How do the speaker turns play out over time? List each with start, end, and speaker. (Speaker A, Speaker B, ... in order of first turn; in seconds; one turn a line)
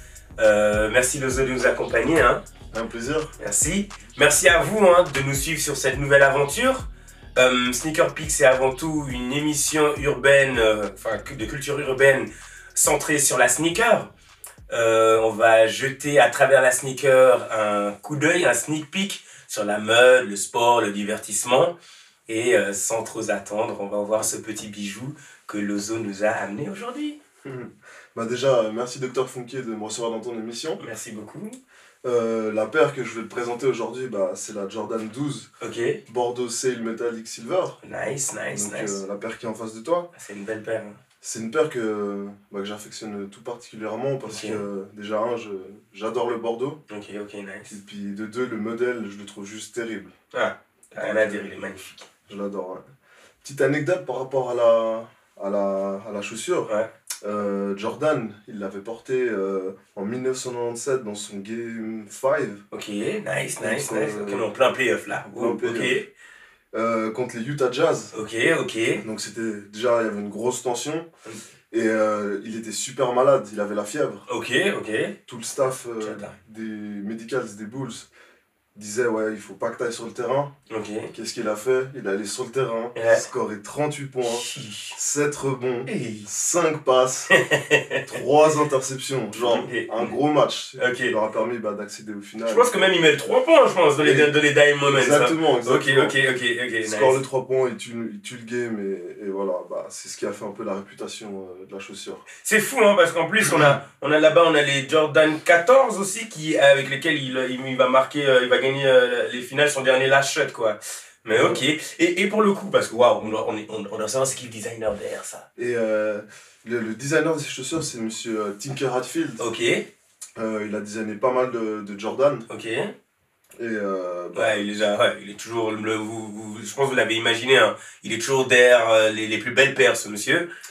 Speaker A: 0.4-2.4
Speaker B: 2.7-3.3
Speaker A: 3.4-14.1
Speaker A: 14.7-21.7
Speaker A: 22.3-27.2
Speaker B: 27.4-30.8
Speaker A: 30.8-31.6
Speaker B: 32.0-35.5
Speaker A: 35.6-36.0
Speaker B: 36.1-37.8
Speaker A: 37.8-39.0
Speaker B: 38.5-40.1
Speaker A: 40.1-41.0
Speaker B: 41.2-46.8
Speaker A: 44.2-44.6
Speaker A: 46.9-47.7
Speaker B: 47.7-50.1
Speaker A: 50.3-52.1
Speaker B: 51.0-51.7
Speaker B: 52.3-52.9
Speaker B: 53.4-56.7
Speaker B: 57.2-62.6
Speaker A: 62.7-66.1
Speaker B: 63.6-64.5
Speaker B: 65.2-65.9
Speaker B: 66.7-68.1
Speaker A: 68.1-69.0
Speaker B: 69.0-71.0
Speaker B: 71.7-74.2
Speaker A: 74.3-75.2
Speaker B: 75.3-78.1
Speaker A: 75.9-76.3
Speaker B: 78.7-80.5
Speaker A: 80.7-81.1
Speaker B: 81.1-87.3
Speaker A: 82.9-83.2
Speaker A: 84.2-85.0
Speaker A: 85.9-86.3
Speaker A: 87.3-88.2
Speaker B: 88.0-92.9
Speaker A: 89.3-90.1
Speaker A: 90.8-91.1
Speaker A: 92.4-97.2
Speaker B: 94.0-94.3
Speaker B: 94.9-96.2
Speaker B: 96.8-102.2
Speaker A: 102.4-115.5
Speaker B: 103.4-103.8
Speaker B: 111.3-111.6
Speaker B: 115.6-119.4
Speaker A: 119.4-119.9
Speaker B: 120.3-122.5
Speaker A: 122.5-122.9
Speaker B: 123.6-124.7
Speaker A: 124.3-130.5